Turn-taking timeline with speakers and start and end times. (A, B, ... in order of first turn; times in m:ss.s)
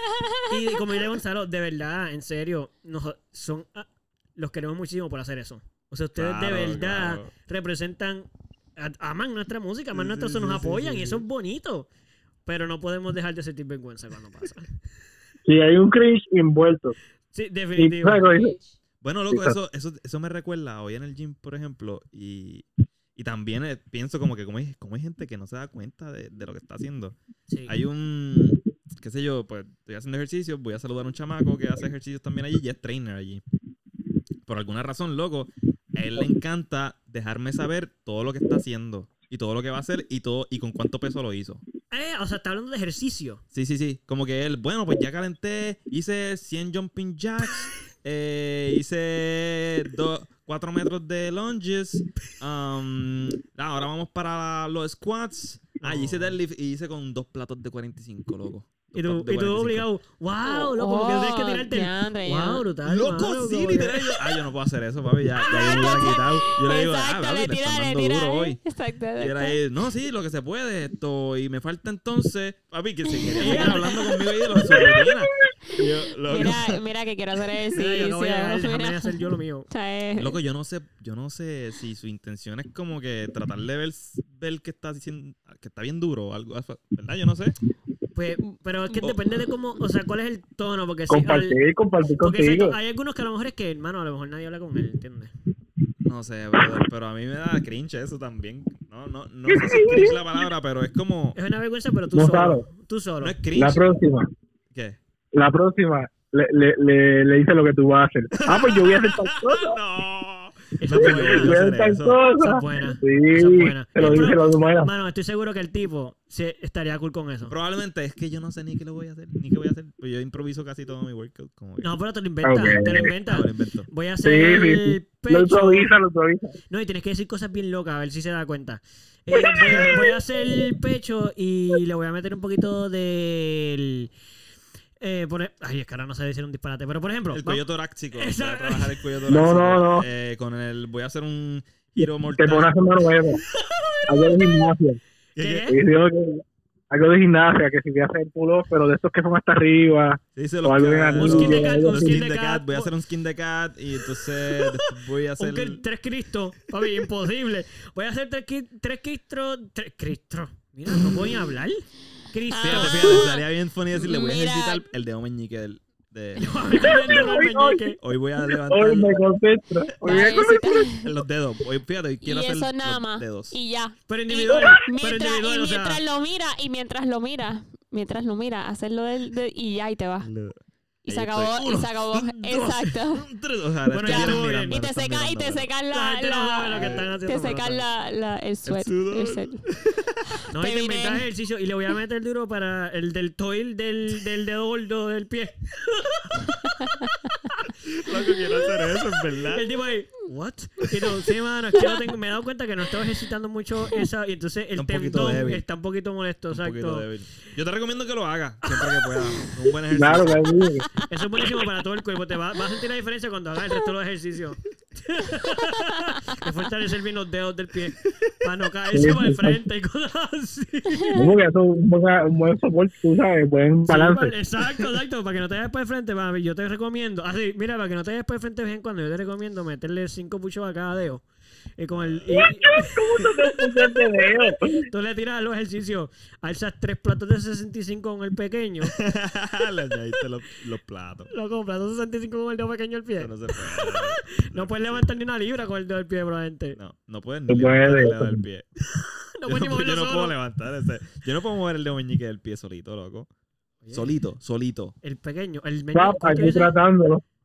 0:00.5-0:11.9 A
0:06.2-0:07.3 B
0:09.9-0:11.2 B
0:12.4-0:14.7 A
0:15.4-0:16.9 C
0:17.3-0:18.3 A
0:17.8-0:18.6 C
0:19.0-0:22.6 B
0:19.3-0:19.6 C
0:23.2-0:27.1 B
0:27.5-0:27.7 A
0:27.7-0:33.4 B
0:34.4-0:41.6 B
0:41.9-0:43.4 A
0:43.5-0:59.8 B
0:55.8-0:56.4 A
0:58.9-1:04.2 A
1:00.4-1:02.6 D
1:02.8-1:08.6 B
1:05.4-1:09.6 D
1:09.2-1:16.8 B
1:13.0-1:14.2 D
1:13.4-1:13.9 A
1:16.3-1:20.4 D
1:17.7-1:19.7 A
1:20.1-1:27.6 B
1:28.1-1:31.6 A
1:31.1-1:32.8 C
1:32.2-1:35.3 A
1:36.0-1:41.4 B
1:39.5-1:40.2 C
1:41.3-1:43.4 A
1:42.1-1:42.6 C
1:43.2-1:43.9 B
1:43.5-1:44.3 C
1:44.7-1:45.0 B
1:45.3-1:49.8 C
1:48.3-1:52.2 B
1:50.8-1:51.6 A
1:51.0-1:54.9 C
1:52.4-1:57.5 A
1:57.5-2:02.0 B
2:01.8-2:05.9 A
2:02.4-2:03.1 C
2:03.2-2:03.9 B
2:04.2-2:06.6 C
2:06.7-2:14.1 A
2:09.5-2:10.6 C
2:15.0-2:17.6 A
2:17.3-2:22.8 B
2:18.1-2:18.9 A
2:19.3-2:20.1 C
2:22.0-2:23.4 C
2:23.5-2:24.6 A
2:24.1-2:25.0 C
2:25.4-2:25.7 B
2:25.4-2:25.8 A
2:25.7-2:32.2 C
2:30.4-2:35.8 B
2:31.2-2:32.9 A
2:34.5-2:34.8 A
2:35.4-2:43.2 A
2:42.5-2:43.4 D
2:42.6-2:47.4 B
2:43.9-2:44.8 D
2:46.4-2:48.0 A
2:46.8-2:47.9 C
2:48.0-2:49.2 B
2:48.7-2:50.9 C
2:50.0-2:51.1 D
2:51.0-2:53.6 B
2:52.2-3:00.3 D
2:54.1-2:56.0 A
3:00.2-3:05.7 B
3:01.0-3:03.3 D
3:03.9-3:04.8 A
3:04.0-3:09.6 D
3:05.9-3:07.8 A
3:06.7-3:07.0 B
3:08.6-3:10.3 B
3:10.5-3:16.4 A
3:10.6-3:11.2 D
3:16.8-3:17.0 D
3:17.8-3:19.6 B
3:19.5-3:27.1 A
3:24.8-3:25.6 B
3:26.5-3:30.5 B
3:29.9-3:30.9 C
3:31.1-3:41.2 A
3:38.9-3:39.6 C
3:40.9-3:41.3 D
3:41.1-3:44.3 C
3:43.9-3:51.2 A
3:51.8-3:58.9 A
3:51.9-3:52.5 B
3:52.3-3:54.9 C
3:58.8-4:01.3 B
4:01.3-4:06.8 A
4:03.2-4:05.1 B
4:06.8-4:08.6 B
4:07.5-4:08.4 C
4:08.9-4:10.3 A
4:09.4-4:13.3 B
4:13.8-4:14.1 A
4:13.9-4:15.0 B
4:15.0-4:16.8 A
4:15.9-4:17.2 C